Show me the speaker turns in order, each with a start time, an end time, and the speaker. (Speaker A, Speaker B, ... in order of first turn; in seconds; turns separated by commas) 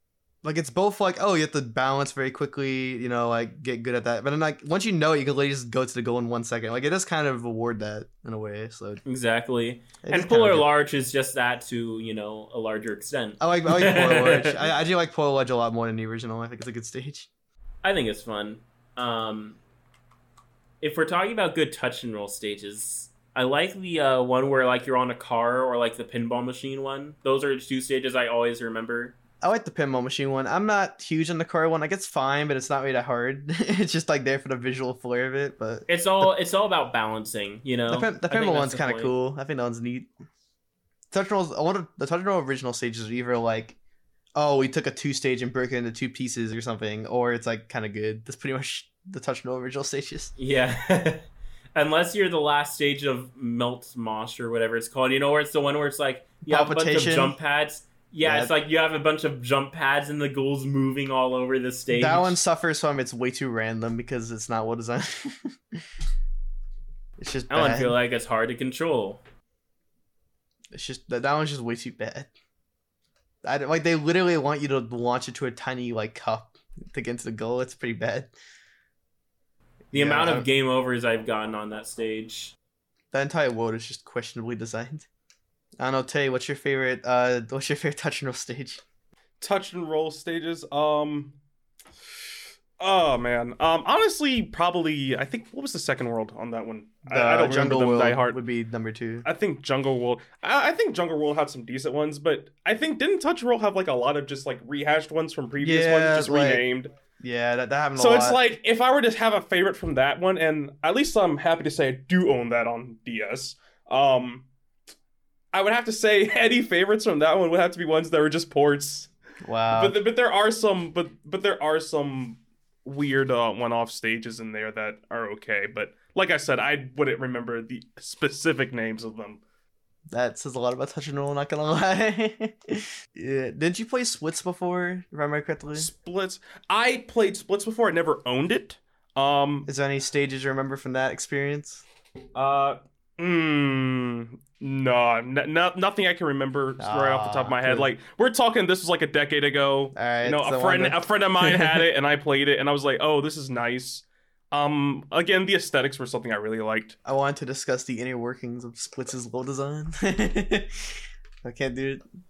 Speaker A: 0.4-9.0, Speaker B: 9.1-14.6, Speaker A: 10.0-10.7, Speaker A: 13.4-17.3, Speaker B: 17.8-19.6, Speaker B: 20.8-29.1, Speaker A: 29.4-36.3, Speaker B: 35.9-39.1, Speaker A: 37.9-40.1, Speaker A: 41.1-43.8, Speaker A: 44.4-50.3, Speaker B: 50.4-51.2, Speaker B: 51.8-62.4, Speaker A: 56.5-57.4, Speaker A: 58.2-58.5, Speaker A: 61.9-65.8, Speaker A: 67.2-67.9, Speaker B: 67.5-69.2, Speaker A: 70.7-72.3, Speaker A: 73.4-78.3, Speaker A: 79.9-80.5, Speaker B: 79.9-82.5, Speaker A: 83.1-85.1, Speaker A: 85.8-88.8, Speaker C: 89.4-91.4, Speaker C: 92.8-98.4, Speaker A: 97.1-99.3, Speaker C: 99.2-106.9, Speaker A: 105.6-106.7, Speaker A: 107.2-108.4, Speaker C: 108.0-114.5, Speaker C: 115.5-119.1, Speaker A: 119.4-120.0, Speaker C: 119.7-129.4, Speaker A: 130.1-135.9, Speaker C: 135.8-139.7, Speaker A: 139.7-141.8, Speaker C: 142.3-157.0, Speaker A: 146.8-147.9, Speaker A: 149.9-151.0, Speaker A: 157.1-162.0